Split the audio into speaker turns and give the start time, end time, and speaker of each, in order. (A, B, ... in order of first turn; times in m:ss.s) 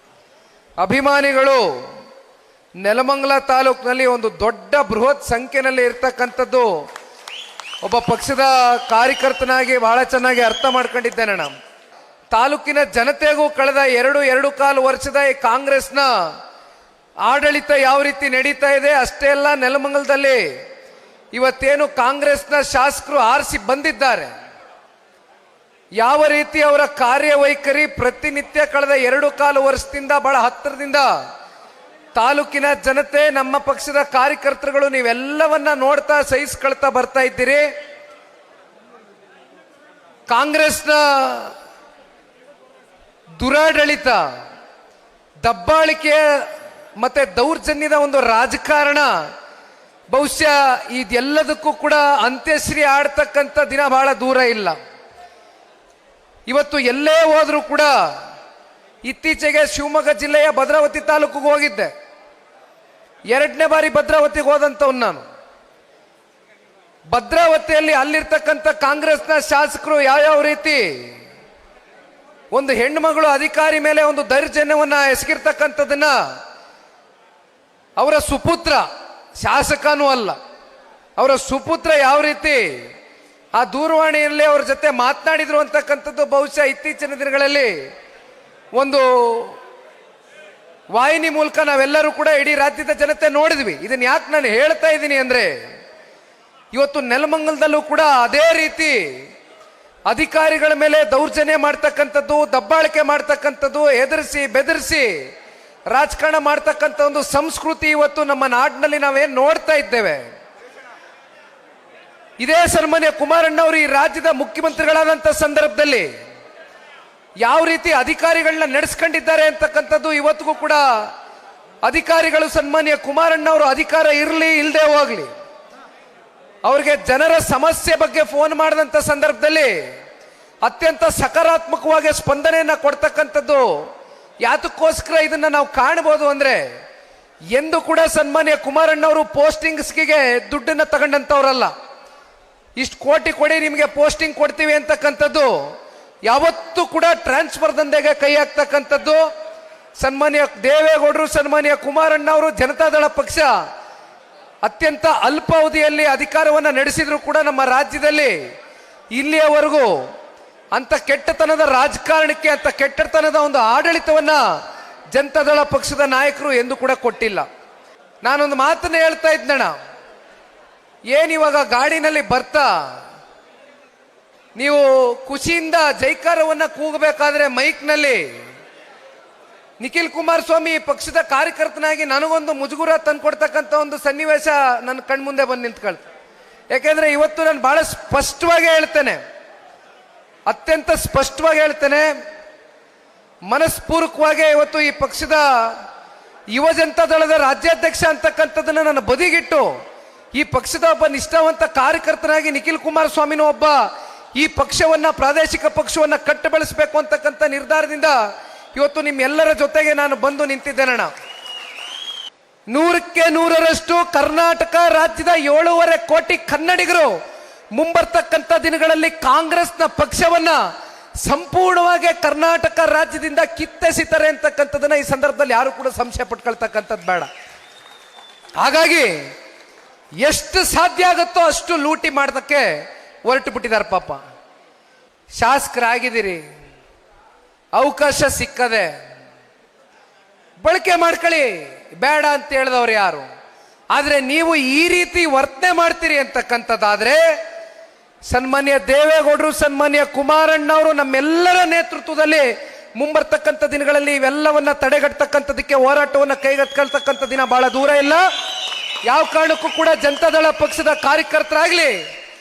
0:00.8-0:01.8 A
0:02.8-0:06.7 A
0:07.8-0:11.5 A
0:12.3-0:16.1 A
0:17.2-0:20.5 A
0:21.3-0:24.3 A
0:26.0-0:31.1 A
0:32.2-0:37.7 A
0:40.3-0:41.5 A
0:43.4-0:44.2 A
0:45.4-0:49.1 A
0:50.1-0:54.8 A
0:56.5-0:58.1 A
0:59.0-1:01.9 A
1:03.3-1:05.2 A
1:07.1-1:11.2 A
1:12.5-1:16.2 A
1:18.0-1:18.9 A
1:19.4-1:20.4 A
1:21.2-1:22.9 A
1:23.6-1:27.8 A
1:28.7-1:29.6 A
1:30.9-1:35.6 A
1:36.7-1:39.2 A
1:40.1-1:45.2 A
1:45.9-1:50.2 A
1:52.4-1:56.1 A
1:57.4-2:01.1 A
2:01.8-2:05.3 A
2:06.6-2:09.8 A
2:10.6-2:13.7 A
2:14.4-2:16.6 A
2:17.5-2:21.7 A
2:22.8-2:25.7 A
2:26.3-2:29.2 A
2:30.0-2:33.5 A
2:34.6-2:38.4 A
2:39.2-2:40.1 A
2:40.7-2:44.4 A
2:45.1-2:47.5 A
2:48.2-2:49.8 A
2:51.1-2:52.9 A
2:54.6-2:58.3 A
2:59.8-3:06.0 A
3:06.7-3:09.2 A
3:10.5-3:12.1 A
3:13.5-3:15.8 A
3:16.5-3:19.7 A
3:20.4-3:23.9 A
3:24.4-3:28.2 A
3:28.8-3:31.1 A
3:32.7-3:37.2 A
3:37.7-3:40.6 A
3:41.2-3:47.3 A
3:48.6-3:49.2 A
3:50.2-3:54.2 A
3:55.4-3:56.4 A
3:57.7-3:58.9 A
4:00.6-4:03.3 A
4:03.9-4:07.2 A
4:08.3-4:18.3 A
4:19.0-4:22.0 A